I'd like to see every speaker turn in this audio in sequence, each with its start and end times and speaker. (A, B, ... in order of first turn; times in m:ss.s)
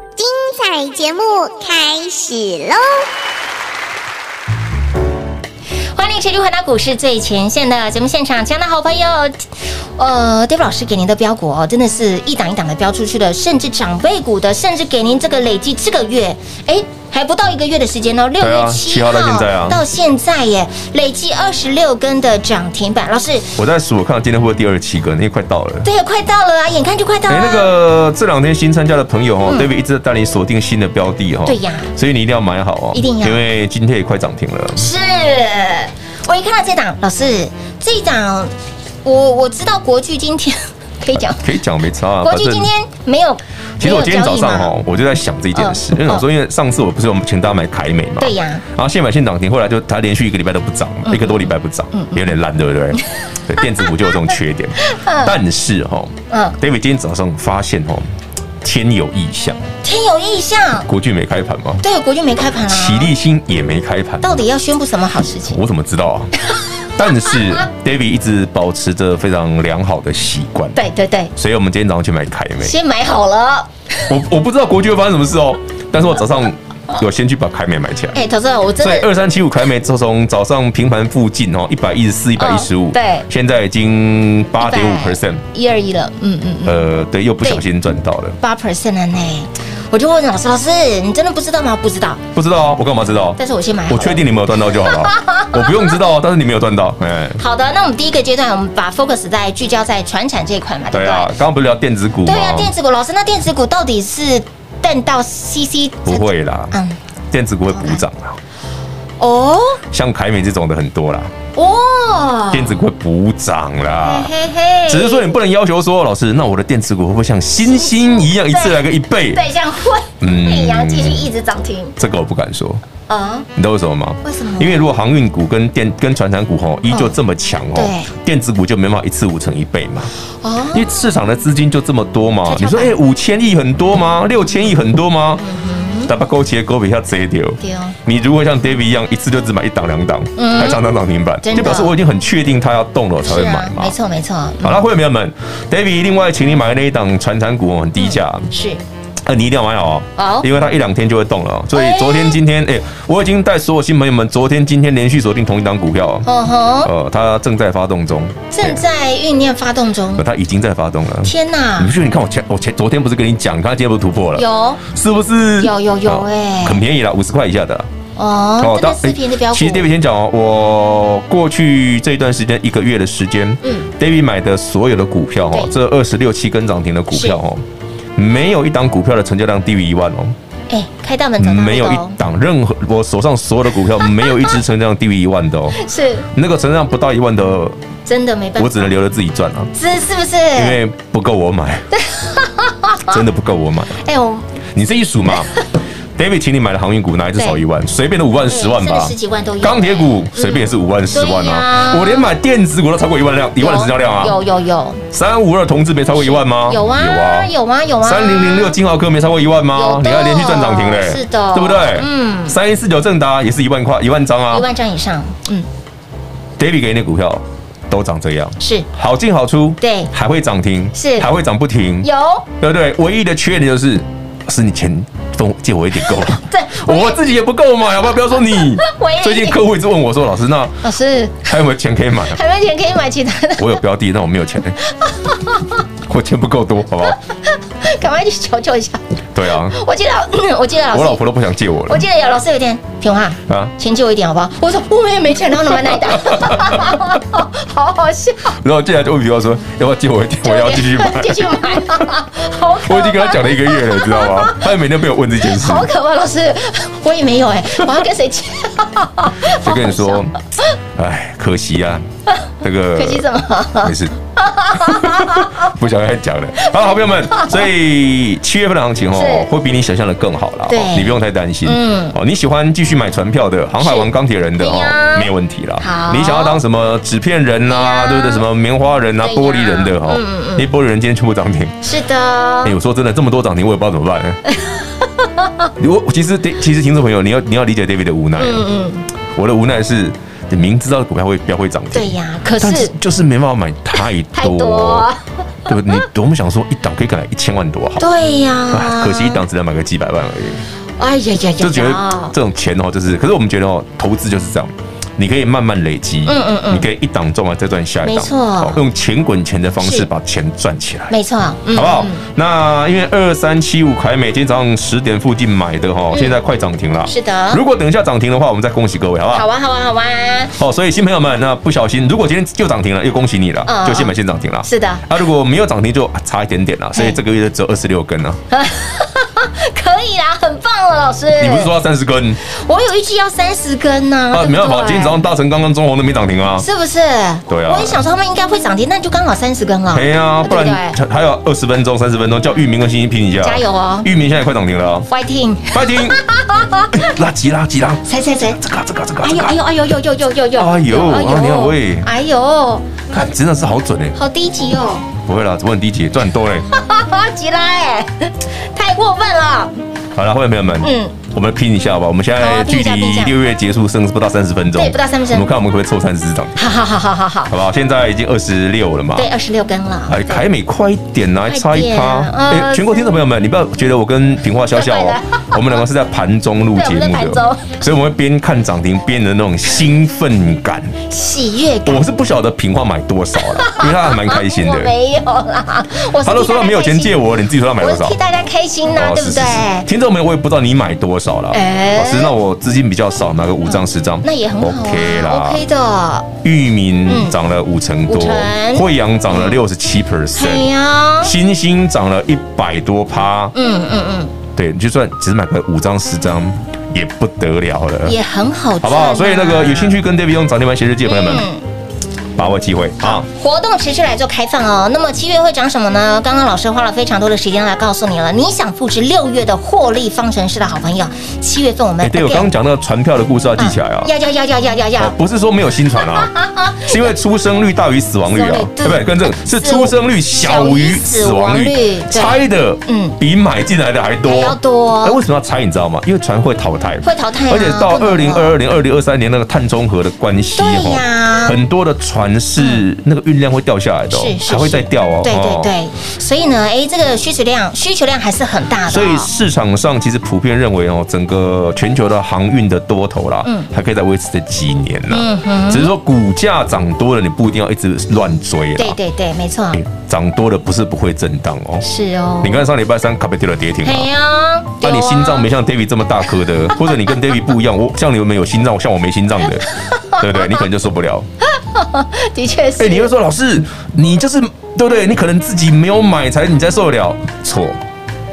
0:00.2-0:03.0 A
0:05.9-0:23.5 B
0:18.4-0:19.8 C
0:23.6-0:25.9 C
0:25.8-0:27.7 B
0:27.3-0:34.8 C
0:31.4-0:31.9 B
0:32.9-0:33.4 B
0:34.8-0:38.5 B
0:39.0-0:41.4 B
0:41.1-0:42.7 C
0:42.2-0:44.7 B
0:43.8-0:58.1 C
0:45.5-0:46.2 B
0:48.2-0:48.6 B
0:51.0-0:52.2 B
0:54.8-0:55.3 B
0:56.3-0:56.6 B
0:58.6-0:59.6 C
0:59.8-1:00.9 B
1:00.8-1:01.8 C
1:01.8-1:03.1 B
1:02.6-1:04.4 C
1:04.2-1:05.6 B
1:05.4-1:06.3 C
1:06.9-1:10.8 C
1:10.7-1:11.3 B
1:11.3-1:12.8 C
1:12.6-1:14.1 B
1:14.1-1:18.2 C
1:18.1-1:19.1 B
1:18.8-1:25.4 C
1:22.4-1:23.2 B
1:24.6-1:26.8 B
1:26.6-1:28.4 C
1:28.4-1:32.2 B
1:32.3-1:37.4 C
1:33.4-1:35.9 B
1:37.4-1:41.3 B
1:40.9-1:42.7 C
1:42.2-1:47.0 B
1:46.0-1:46.8 C
1:47.3-1:48.4 C
1:47.7-1:48.0 B
1:49.2-1:49.8 B
1:49.9-1:51.3 C
1:51.6-1:52.8 B
1:52.5-1:54.3 C
1:54.0-1:55.3 B
1:54.9-1:59.4 C
1:57.6-1:58.8 B
1:59.3-2:01.9 B
2:00.2-2:01.3 C
2:02.0-2:02.8 C
2:03.1-2:03.5 B
2:03.6-2:10.1 C
2:04.2-2:04.9 B
2:06.9-2:07.2 B
2:07.7-2:08.1 B
2:10.4-2:10.9 B
2:10.7-2:15.4 C
2:12.5-2:12.9 B
2:15.4-2:16.1 B
2:16.0-2:23.9 C
2:17.6-2:18.0 B
2:20.4-2:20.8 B
2:21.4-2:21.9 B
2:23.2-2:24.8 B
2:24.6-2:28.5 C
2:28.0-2:28.8 B
2:29.2-2:36.3 C
2:30.2-2:30.5 B
2:31.7-2:32.4 B
2:36.2-2:36.9 B
2:36.8-2:38.8 C
2:38.5-2:40.2 B
2:40.1-2:47.9 C
2:41.2-2:41.9 B
2:44.3-2:44.8 B
2:45.6-2:46.8 B
2:48.2-2:49.8 B
2:48.6-2:57.6 C
2:53.6-2:53.9 B
2:57.1-2:57.4 B
2:58.2-3:00.3 C
3:00.7-3:02.1 B
3:01.4-3:07.8 C
3:05.8-3:06.2 B
3:08.0-3:08.9 B
3:08.6-3:09.7 C
3:09.7-3:10.8 B
3:10.5-3:11.9 C
3:11.9-3:13.2 B
3:13.1-3:14.0 C
3:14.0-3:14.5 B
3:14.7-3:15.5 C
3:16.2-3:24.4 C
3:18.5-3:22.3 B
3:23.6-3:25.0 B
3:25.1-3:27.5 C
3:26.1-3:28.8 B
3:28.0-3:34.7 C
3:29.7-3:32.6 B
3:34.5-3:35.7 B
3:36.6-3:42.1 C
3:38.6-3:38.9 B
3:39.8-3:40.1 B
3:41.0-3:41.3 B
3:42.0-3:42.4 B
3:42.6-3:50.8 C
3:46.1-3:47.2 B
3:48.6-3:49.6 B
3:50.8-3:51.5 B
3:51.4-3:52.4 C
3:52.3-3:53.8 B
3:53.6-3:54.8 C
3:55.0-3:55.7 B
3:56.0-3:57.2 C
3:57.1-3:59.0 B
3:59.3-3:59.7 C
3:59.6-4:01.2 B
4:00.9-4:02.0 C
4:01.9-4:08.6 B
4:03.5-4:03.7 C
4:05.8-4:07.0 C
4:08.6-4:11.6 C
4:10.4-4:14.7 B
4:12.8-4:15.9 C
4:15.4-4:20.3 B
4:19.5-4:20.3 C
4:21.0-4:22.0 C
4:22.6-4:23.2 C
4:23.0-4:25.7 B
4:23.8-4:24.1 C
4:24.7-4:41.9 C
4:26.6-4:27.7 B
4:29.1-4:29.5 B
4:30.7-4:31.1 B
4:31.6-4:32.2 B
4:33.8-4:36.6 B
4:37.7-4:38.4 B
4:39.2-4:40.6 B
4:41.8-4:42.7 B
4:42.6-4:44.4 C
4:44.5-4:45.7 B
4:45.8-4:48.6 C
4:48.4-4:49.0 B
4:49.3-4:55.1 C
4:51.9-4:52.9 B
4:54.4-4:55.8 B
4:55.6-4:58.1 C
4:58.0-4:59.4 B
4:58.7-5:00.6 C
5:01.0-5:02.3 B
5:01.6-5:11.1 C
5:06.2-5:06.9 B
5:08.0-5:08.8 B
5:09.8-5:10.1 B
5:11.1-5:12.2 B
5:11.7-5:19.4 C
5:16.1-5:16.4 B
5:17.1-5:17.6 B
5:19.3-5:20.6 B
5:20.6-5:28.4 C
5:23.7-5:24.1 B
5:24.6-5:25.1 B
5:28.5-5:31.7 B
5:31.4-5:32.4 C
5:32.4-5:35.2 B
5:34.3-5:36.6 C
5:36.6-5:41.0 B
5:37.5-5:38.0 C
5:39.9-5:45.1 C
5:43.4-5:44.1 B
5:45.1-5:47.1 B
5:45.7-5:46.2 C
5:46.9-5:49.6 C
5:48.0-5:48.6 B
5:49.2-5:53.0 B
5:50.5-5:52.1 C
5:53.1-5:54.2 C
5:54.1-5:55.1 B
5:55.2-5:56.7 C
5:56.7-5:59.7 B
6:00.1-6:06.6 C
6:00.8-6:01.2 B
6:02.4-6:03.3 B
6:04.7-6:05.5 B
6:06.6-6:07.5 B
6:07.5-6:09.3 C
6:09.2-6:10.4 B
6:10.1-6:21.0 C
6:11.5-6:13.1 B
6:14.7-6:15.8 B
6:16.7-6:17.8 B
6:21.1-6:22.0 B
6:21.8-6:24.9 C
6:23.4-6:27.2 B
6:26.2-6:28.2 C
6:27.8-6:29.9 B
6:28.9-6:35.6 C
6:31.5-6:32.3 B
6:33.6-6:36.3 B
6:36.4-6:40.7 C
6:37.1-6:37.3 B
6:38.1-6:39.6 B
6:40.4-6:41.3 B
6:41.2-6:43.5 C
6:43.5-6:44.4 B
6:44.5-6:48.2 C
6:48.0-6:50.0 B
6:48.8-6:51.5 C
6:51.0-6:51.6 B
6:52.4-6:53.3 C
6:53.0-7:02.4 B
7:02.0-7:04.1 C
7:03.6-7:05.1 B
7:05.0-7:25.7 C
7:06.0-7:07.1 B
7:08.3-7:13.2 B
7:14.3-7:15.2 B
7:17.0-7:18.6 B
7:20.6-7:21.6 B
7:22.6-7:22.8 B
7:24.1-7:29.3 B
7:28.9-7:39.0 C
7:33.4-7:33.7 B
7:35.1-7:35.9 B
7:38.8-7:39.8 B
7:39.7-7:41.8 C
7:41.8-7:42.6 B
7:42.4-7:44.1 C
7:43.8-7:45.4 B
7:44.8-7:51.3 C
7:49.6-7:50.6 B
7:51.6-7:53.1 B
7:52.8-7:57.8 C